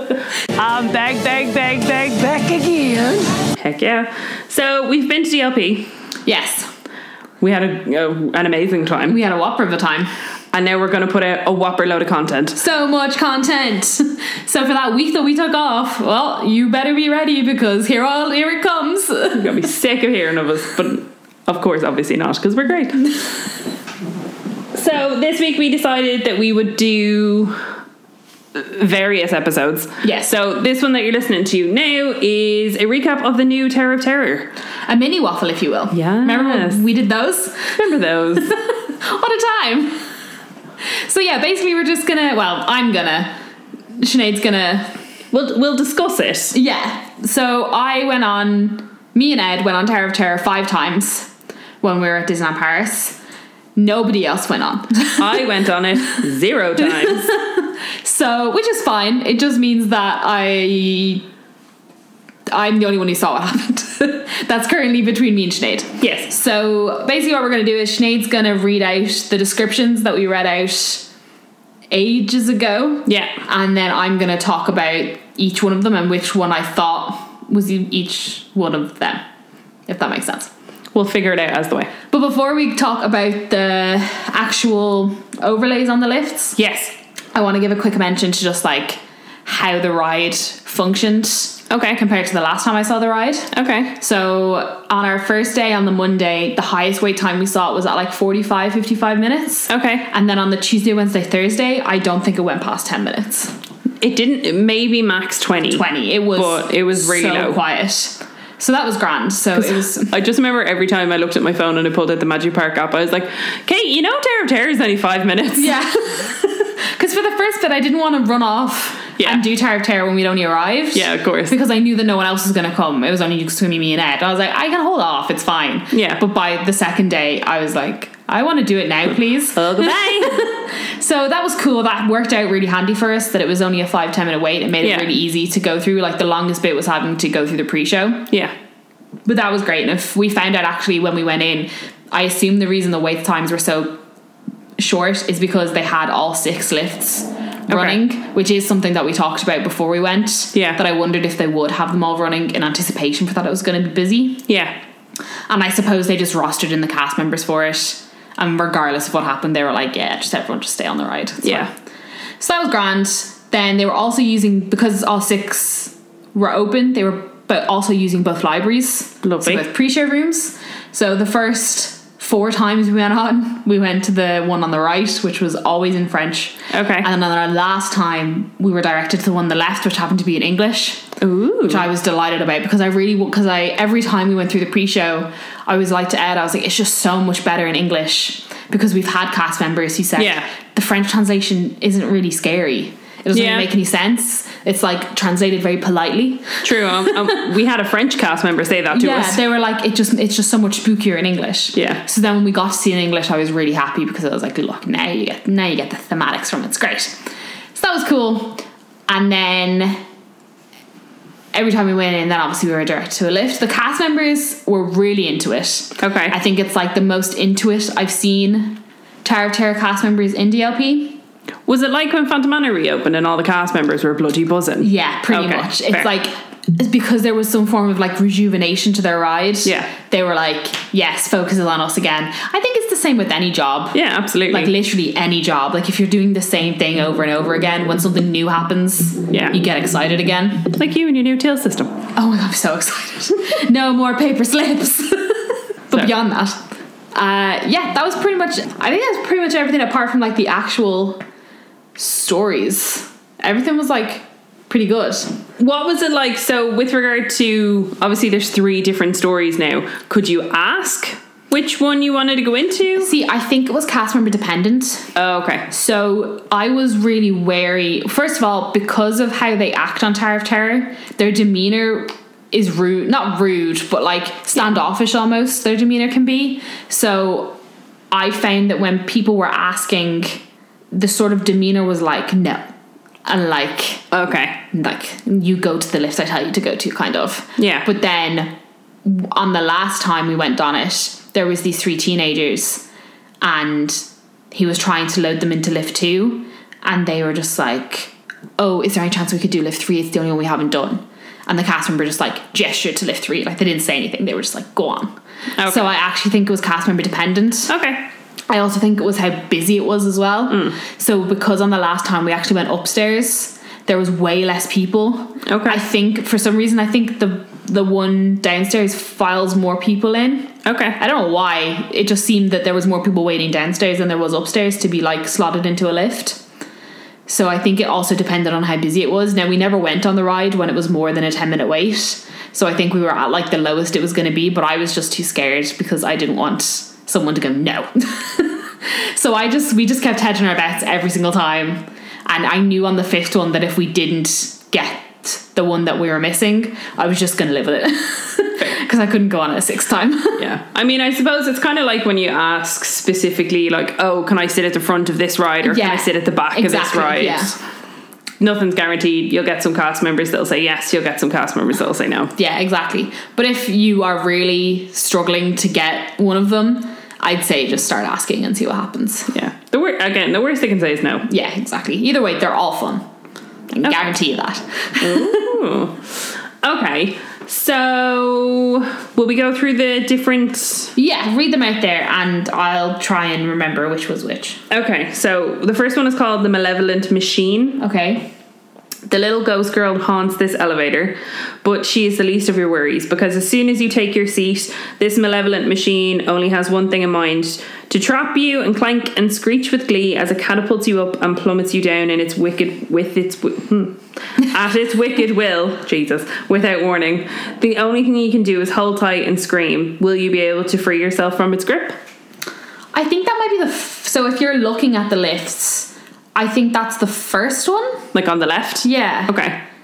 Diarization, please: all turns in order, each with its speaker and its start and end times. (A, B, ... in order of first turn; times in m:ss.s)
0:00.6-0:03.4 A
0:03.6-0:05.9 B
0:06.2-0:06.7 C
0:07.4-0:09.2 B
0:09.1-0:10.1 C
0:10.5-0:12.6 B
0:12.6-0:19.6 C
0:19.3-0:23.0 B
0:24.7-0:27.6 B
0:28.5-0:34.5 B
0:30.0-0:30.3 C
0:34.9-0:37.8 C
0:35.9-0:36.8 B
0:37.7-0:38.5 B
0:38.5-0:40.0 C
0:40.9-0:43.3 C
0:44.0-0:45.0 C
0:45.3-0:46.5 B
0:46.5-0:51.3 C
0:51.8-0:53.2 C
0:53.8-0:55.4 C
0:55.2-0:57.3 B
0:56.9-1:01.2 C
1:02.5-1:11.1 C
1:06.0-1:06.3 B
1:11.9-1:19.2 C
1:13.0-1:13.3 B
1:19.9-1:20.5 C
1:20.9-1:21.9 B
1:22.1-1:26.6 C
1:26.6-1:26.9 B
1:27.3-1:43.6 C
1:31.7-1:32.0 B
1:33.5-1:33.9 B
1:39.7-1:40.1 B
1:44.0-1:45.8 B
1:45.7-1:50.1 C
1:46.3-1:47.6 B
1:49.7-1:55.8 B
1:55.6-2:18.3 C
1:59.2-1:59.4 B
2:00.9-2:01.5 B
2:05.9-2:06.2 B
2:09.5-2:10.4 B
2:14.8-2:15.1 B
2:19.2-2:24.0 C
2:24.8-2:34.5 C
2:27.7-2:28.0 B
2:30.5-2:30.8 B
2:34.5-2:34.7 B
2:35.5-2:41.7 C
2:41.4-2:41.7 B
2:42.4-3:01.1 C
2:49.2-2:49.6 B
2:56.7-2:57.1 B
3:01.2-3:01.9 B
3:01.6-3:17.4 C
3:10.2-3:10.5 B
3:13.3-3:13.7 B
3:16.6-3:19.4 B
3:18.9-3:27.2 C
3:21.7-3:22.0 B
3:27.7-3:30.0 C
3:31.5-3:41.2 C
3:36.0-3:36.4 B
3:41.6-3:46.1 B
3:44.8-4:00.7 C
3:49.6-3:49.9 B
3:53.9-3:54.7 B
3:59.3-3:59.6 B
4:00.7-4:02.0 B
4:02.1-4:06.6 C
4:07.1-4:11.2 C
4:12.0-4:15.4 C
4:15.6-4:23.1 B
4:23.0-4:25.1 C
4:25.1-4:25.7 B
4:25.7-4:37.6 C
4:38.1-4:42.7 C
4:43.2-4:44.1 C
4:44.1-4:44.6 B
4:44.7-4:48.5 C
4:47.6-4:47.9 B
4:49.0-4:52.8 C
4:53.4-5:07.7 C
5:05.6-5:05.9 B
5:07.7-5:08.0 B
5:08.5-5:26.4 C
5:10.5-5:10.8 B
5:15.4-5:15.8 B
5:20.6-5:21.0 B
5:27.3-5:50.4 C
5:50.4-5:57.6 B
5:55.6-5:57.6 C
5:58.4-6:02.3 B
6:02.3-6:09.3 C
6:09.3-6:11.3 B
6:11.3-6:13.0 C
6:13.7-6:15.6 C
6:15.0-6:20.9 B
6:20.9-6:24.6 C
6:24.7-6:27.8 B
6:27.8-6:28.3 C
6:29.1-6:52.0 B
6:52.9-6:58.0 C
6:58.1-6:59.6 B
6:58.8-6:59.4 C